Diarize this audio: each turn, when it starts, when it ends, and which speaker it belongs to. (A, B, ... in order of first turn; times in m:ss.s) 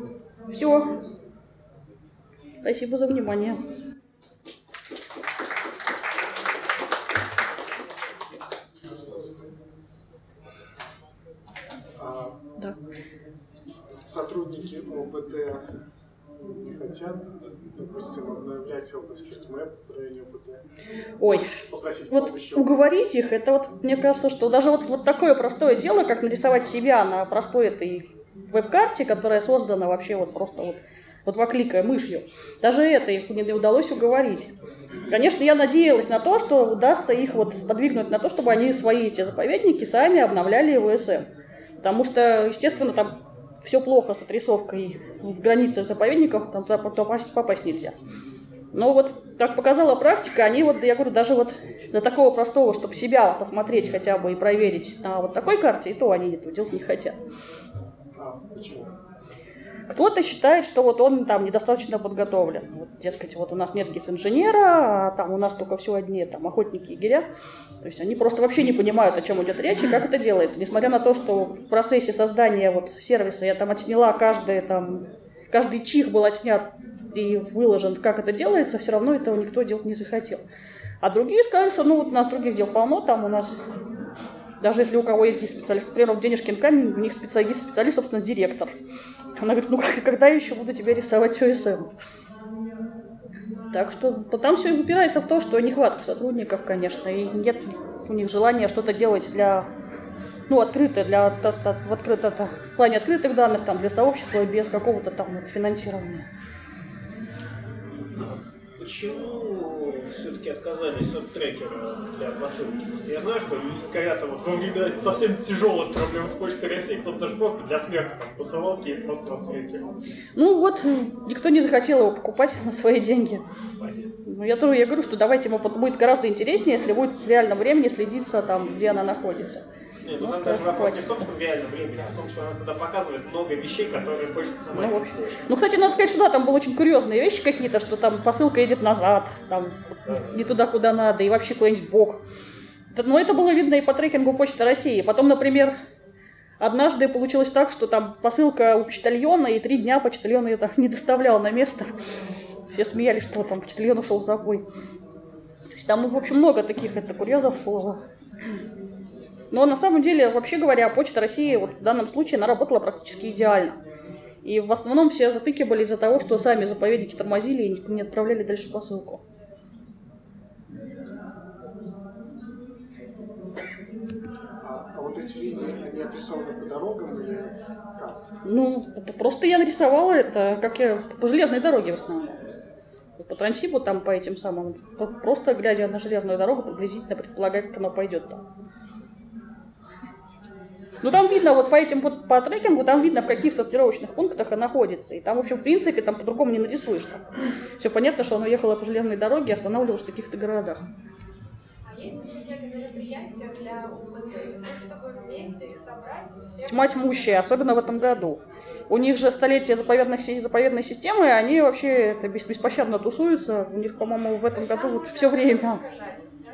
0:00.5-0:00.9 A
0:02.6-0:03.6 A
0:12.0-0:12.4 B
0:14.0-0:15.6 B
0:16.6-0:20.6 B
0:21.2-0:21.5 A
0:21.7-0:22.8 B
0:22.1-0:34.5 A
0:35.1-0:41.2 A
0:41.8-0:47.9 A
0:48.7-0:57.2 A
0:58.2-0:58.9 B
0:59.9-1:07.2 A
1:07.8-1:20.4 A
1:21.0-1:23.6 A
1:24.6-1:28.7 A
1:29.4-1:31.9 A
1:33.7-1:39.7 A
1:40.5-1:46.2 A
1:48.2-1:59.9 C
2:00.4-2:03.4 A
2:03.8-2:04.1 C
2:04.2-2:09.6 A
2:10.0-2:15.4 C
2:10.2-2:11.2 A
2:14.7-2:22.2 A
2:22.9-2:25.8 A
2:26.6-2:31.9 A
2:32.7-2:34.6 A
2:35.7-2:38.0 A
2:39.5-2:43.8 A
2:44.4-2:49.2 A
2:54.6-2:58.2 B
2:58.4-3:02.4 A
3:03.2-3:08.4 A
3:11.0-3:17.2 A
3:17.8-3:20.8 A
3:22.1-3:24.0 D
3:24.7-3:26.5 D
3:26.6-3:35.8 A